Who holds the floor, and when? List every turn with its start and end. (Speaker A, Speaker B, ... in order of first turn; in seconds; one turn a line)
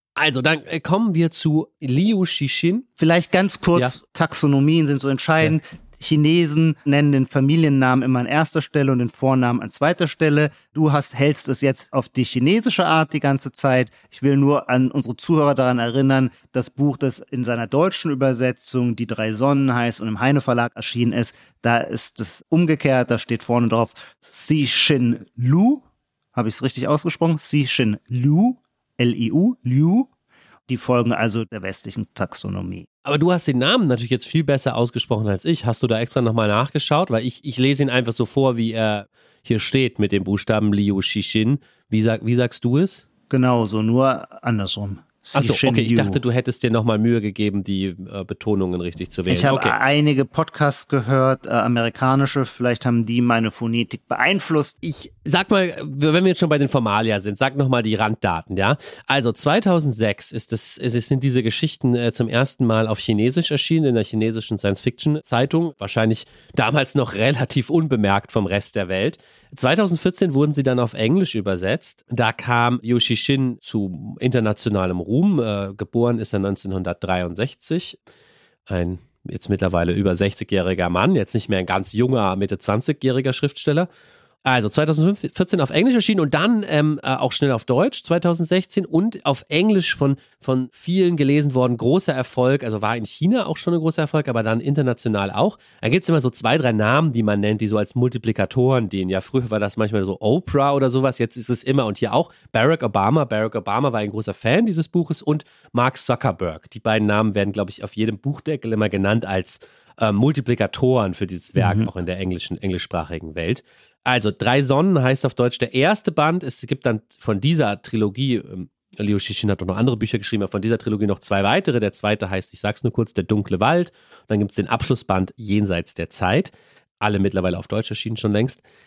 Speaker A: 0.2-2.9
Speaker B: 3.0-25.8
Speaker B: 26.4-30.1
Speaker B: 30.7-32.9
Speaker A: 33.0-43.1
Speaker B: 43.3-46.2
Speaker A: 45.3-49.8
Speaker B: 49.3-54.8
Speaker A: 54.8-78.0
Speaker A: 78.7-83.9
Speaker A: 84.4-128.6
Speaker B: 111.6-111.9